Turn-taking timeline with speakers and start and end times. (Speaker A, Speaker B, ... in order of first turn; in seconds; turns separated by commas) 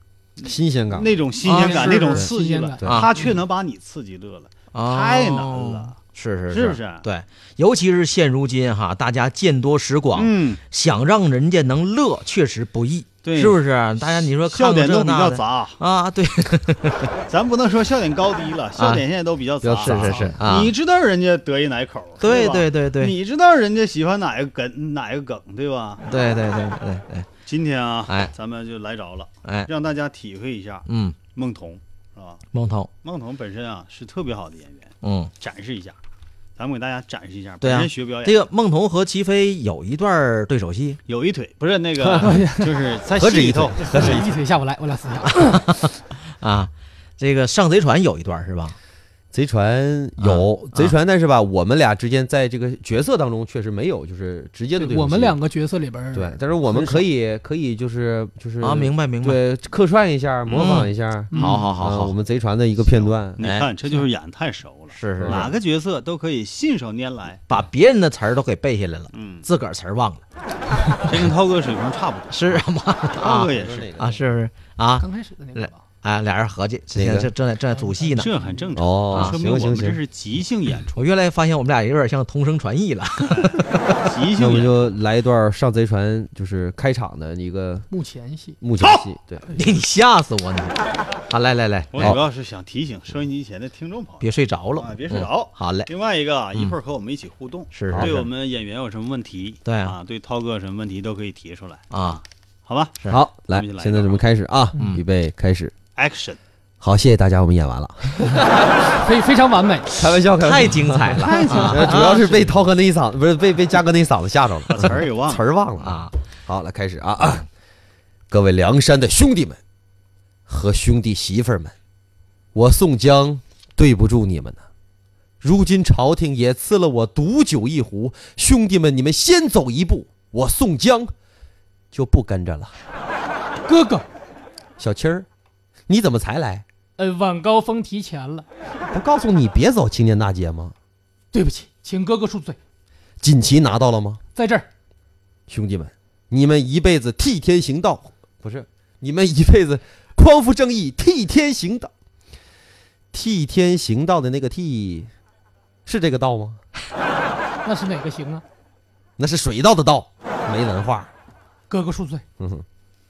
Speaker A: 0.4-6.0, Speaker B: 0.4-1.3, Speaker C: 1.4-2.9, Speaker D: 1.4-2.0, Speaker D: 2.8-3.1, Speaker D: 4.7-17.1, Speaker A: 6.5-7.1, Speaker A: 10.1-10.6, Speaker A: 13.2-15.8, Speaker A: 17.3-26.2, Speaker D: 18.8-19.0, Speaker B: 19.6-20.4, Speaker D: 19.8-20.7, Speaker D: 22.2-23.1, Speaker D: 26.0-27.3, Speaker A: 27.4-32.4, Speaker D: 28.1-28.3, Speaker D: 30.9-31.2, Speaker D: 32.5-32.9, Speaker A: 33.0-36.0, Speaker D: 35.0-35.3, Speaker A: 36.6-38.4, Speaker D: 37.6-41.0, Speaker A: 41.1-44.2, Speaker C: 42.2-42.7, Speaker B: 43.1-44.3, Speaker C: 43.8-45.7, Speaker D: 45.5-48.8, Speaker B: 49.3-55.4, Speaker D: 50.2-50.9, Speaker C: 54.8-57.0, Speaker B: 56.1-63.4, Speaker D: 58.6-59.4, Speaker D: 60.5-62.1, Speaker C: 61.3-61.7, Speaker A: 62.8-67.4, Speaker D: 63.4-63.7, Speaker D: 64.9-65.5, Speaker B: 65.2-65.6, Speaker D: 67.5-70.2, Speaker A: 69.1-69.5, Speaker A: 71.0-73.9, Speaker D: 72.3-78.3, Speaker B: 73.5-74.2, Speaker C: 75.0-75.8, Speaker B: 76.9-77.3, Speaker C: 77.8-78.7, Speaker A: 78.1-81.0, Speaker B: 78.8-80.0, Speaker D: 80.9-83.9, Speaker A: 84.0-84.8, Speaker B: 84.4-87.9, Speaker C: 87.9-88.6, Speaker B: 88.6-89.4, Speaker D: 89.5-90.8, Speaker D: 91.3-92.2, Speaker A: 91.9-103.0, Speaker D: 94.2-95.9, Speaker D: 97.7-98.1, Speaker B: 97.9-98.3, Speaker D: 99.6-99.9, Speaker D: 101.9-102.2, Speaker B: 103.1-105.7, Speaker A: 103.5-104.2, Speaker D: 104.8-105.0, Speaker A: 106.0-106.4, Speaker B: 106.8-108.5, Speaker C: 109.0-109.9, Speaker B: 109.9-117.5, Speaker D: 110.4-112.2, Speaker A: 111.3-112.1, Speaker C: 111.4-112.5, Speaker A: 114.7-115.4, Speaker D: 115.8-116.1, Speaker B: 118.3-119.6, Speaker B: 120.5-121.7, Speaker B: 122.5-124.6, Speaker B: 125.4-131.1, Speaker B: 131.9-132.8, Speaker C: 133.7-134.1, Speaker B: 134.8-135.2, Speaker B: 135.9-136.6, Speaker C: 137.0-138.4, Speaker B: 138.9-140.8, Speaker C: 141.3-142.6, Speaker B: 143.2-144.2, Speaker C: 144.3-144.7, Speaker B: 145.5-151.9, Speaker B: 153.1-155.1, Speaker B: 155.8-156.6, Speaker C: 157.6-158.4, Speaker B: 159.2-161.1, Speaker C: 161.7-162.2, Speaker B: 162.4-162.6